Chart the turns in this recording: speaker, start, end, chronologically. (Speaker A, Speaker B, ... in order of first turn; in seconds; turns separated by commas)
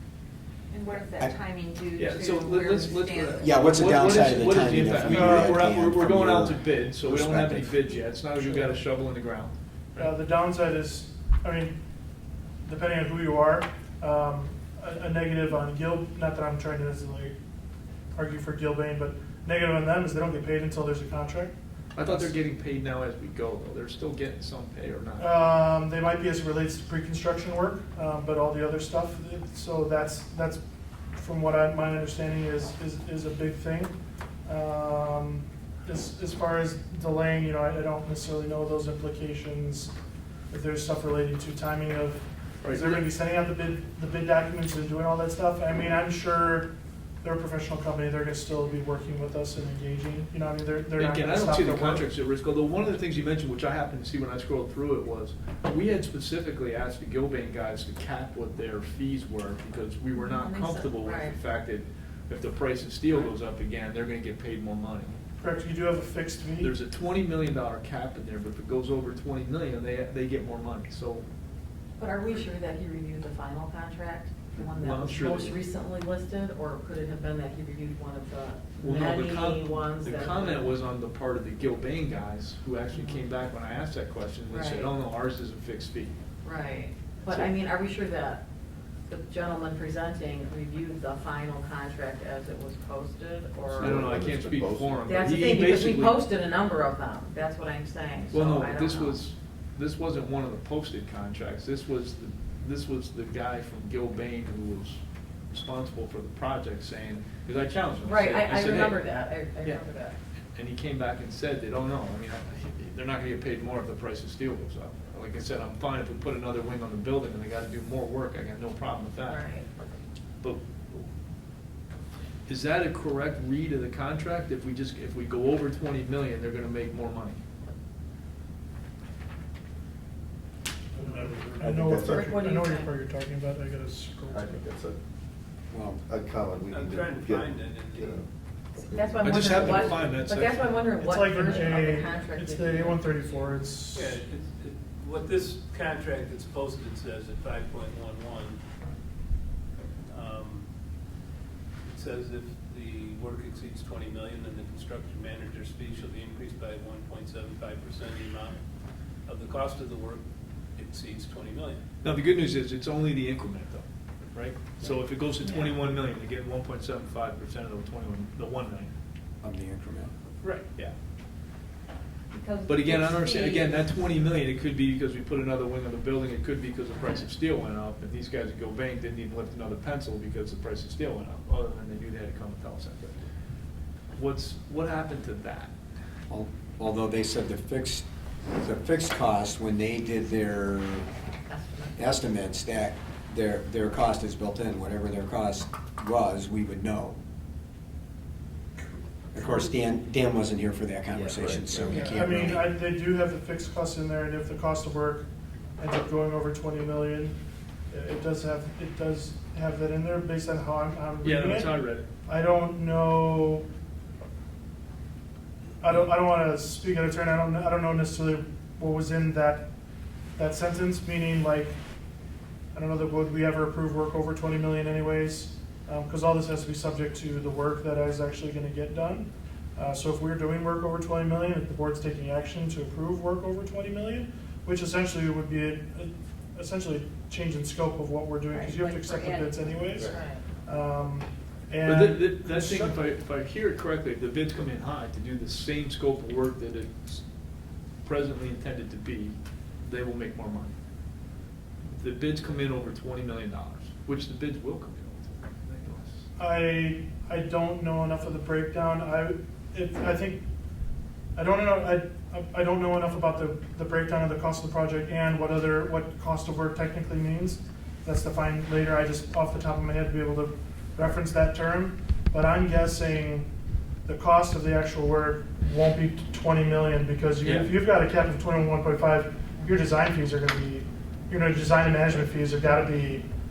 Speaker A: 0.7-3.6, Speaker B: 2.0-10.1, Speaker C: 3.4-8.0, Speaker D: 5.0-5.7, Speaker D: 8.4-8.6, Speaker D: 10.0-11.8, Speaker D: 12.6-17.4, Speaker D: 18.1-22.3, Speaker B: 21.9-25.4, Speaker D: 25.2-30.6, Speaker D: 31.1-34.0, Speaker D: 34.5-39.9, Speaker D: 40.5-46.7, Speaker B: 42.6-43.0, Speaker D: 47.2-52.0, Speaker B: 51.0-65.2, Speaker E: 60.4-61.3, Speaker D: 65.4-66.7, Speaker B: 66.6-71.3, Speaker E: 72.0-80.7, Speaker B: 74.6-75.6, Speaker B: 78.8-86.2, Speaker E: 84.5-85.0, Speaker E: 86.4-88.4, Speaker B: 87.3-87.5, Speaker E: 89.1-94.2, Speaker F: 93.7-95.3, Speaker B: 93.8-96.2, Speaker E: 95.1-99.2, Speaker B: 98.3-109.0, Speaker E: 108.0-110.2, Speaker B: 110.5-119.5, Speaker E: 119.2-119.7, Speaker B: 120.4-121.1, Speaker B: 122.5-127.4, Speaker D: 131.0-134.7, Speaker F: 131.8-132.4, Speaker E: 132.0-132.9, Speaker F: 134.3-135.0, Speaker C: 135.7-136.0, Speaker F: 136.0-138.3, Speaker G: 136.7-138.2, Speaker E: 138.8-143.4, Speaker F: 138.9-140.0, Speaker B: 139.2-140.9, Speaker D: 141.0-144.2, Speaker G: 143.9-148.6, Speaker G: 150.1-150.7, Speaker G: 151.8-158.6, Speaker G: 159.3-160.2, Speaker G: 160.8-161.8, Speaker B: 162.0-168.9, Speaker C: 169.4-170.1, Speaker B: 170.4-170.9, Speaker A: 172.3-173.7, Speaker B: 172.7-183.2, Speaker B: 184.1-185.7, Speaker C: 186.3-188.1, Speaker C: 188.6-191.1, Speaker E: 191.3-192.2, Speaker C: 192.0-197.2, Speaker C: 199.3-202.7, Speaker F: 201.1-202.0, Speaker D: 201.8-205.3, Speaker D: 205.8-207.4, Speaker D: 207.9-211.7, Speaker B: 211.2-212.1, Speaker D: 212.2-213.7, Speaker D: 215.8-219.7, Speaker D: 220.4-221.8, Speaker D: 222.7-243.0, Speaker A: 238.5-239.7, Speaker E: 240.0-240.4, Speaker B: 241.8-247.2, Speaker B: 248.0-250.7, Speaker B: 251.9-256.2, Speaker D: 256.4-260.4, Speaker D: 261.4-273.5, Speaker D: 274.1-283.3, Speaker B: 277.4-277.7